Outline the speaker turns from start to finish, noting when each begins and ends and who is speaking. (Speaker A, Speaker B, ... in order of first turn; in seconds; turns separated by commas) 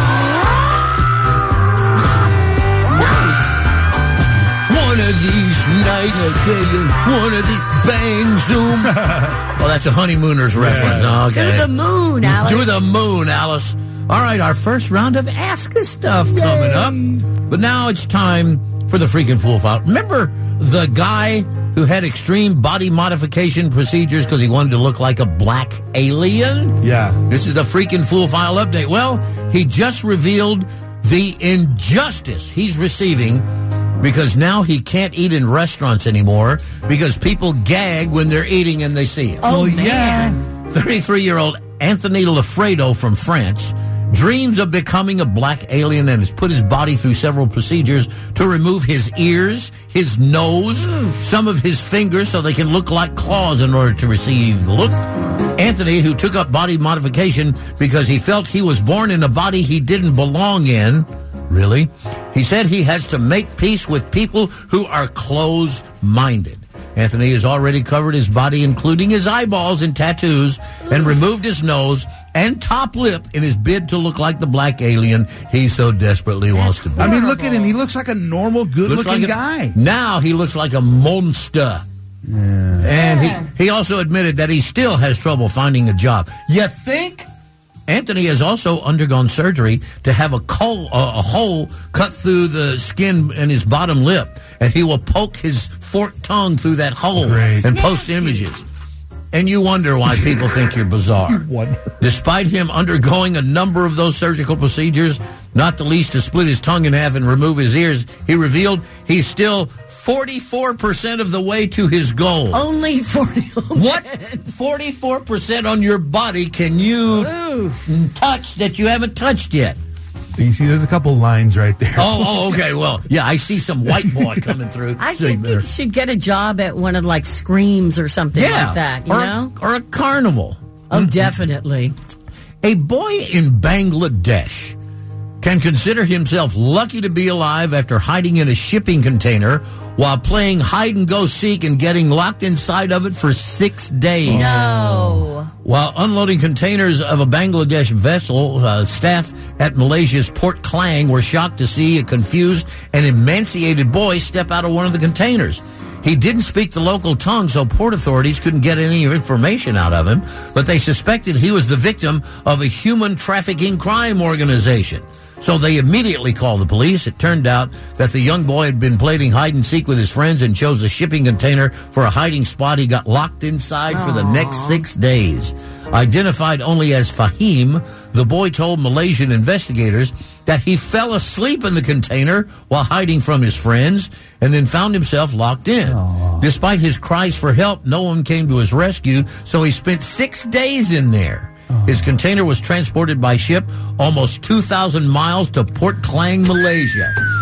Speaker A: 2.9-3.6, Speaker B: 4.7-11.7, Speaker C: 6.1-7.0, Speaker C: 8.8-9.3, Speaker C: 10.5-11.2, Speaker A: 11.3-12.8, Speaker B: 12.2-33.4, Speaker C: 16.2-17.2, Speaker C: 26.8-27.2, Speaker B: 34.0-39.4, Speaker A: 39.4-40.3, Speaker C: 39.4-40.4, Speaker B: 40.7-55.0, Speaker B: 55.5-77.2, Speaker A: 76.5-77.7, Speaker C: 77.0-79.8, Speaker B: 78.8-81.8, Speaker C: 82.2-82.9, Speaker B: 82.8-87.3, Speaker A: 82.9-83.4, Speaker B: 87.9-98.6, Speaker C: 97.2-97.7, Speaker A: 97.6-98.4, Speaker B: 99.3-101.4, Speaker C: 101.3-101.9, Speaker B: 102.0-112.6, Speaker A: 112.5-114.4, Speaker B: 113.7-117.3, Speaker A: 117.1-117.8, Speaker B: 117.9-119.8, Speaker C: 120.4-122.6, Speaker B: 122.0-125.6, Speaker A: 125.0-129.5, Speaker B: 128.3-131.3, Speaker A: 130.9-131.9, Speaker B: 132.6-134.8, Speaker B: 135.4-144.7, Speaker A: 144.3-145.5, Speaker C: 144.3-144.7, Speaker B: 145.6-197.2, Speaker A: 173.9-174.8, Speaker C: 185.8-186.5, Speaker C: 191.7-192.1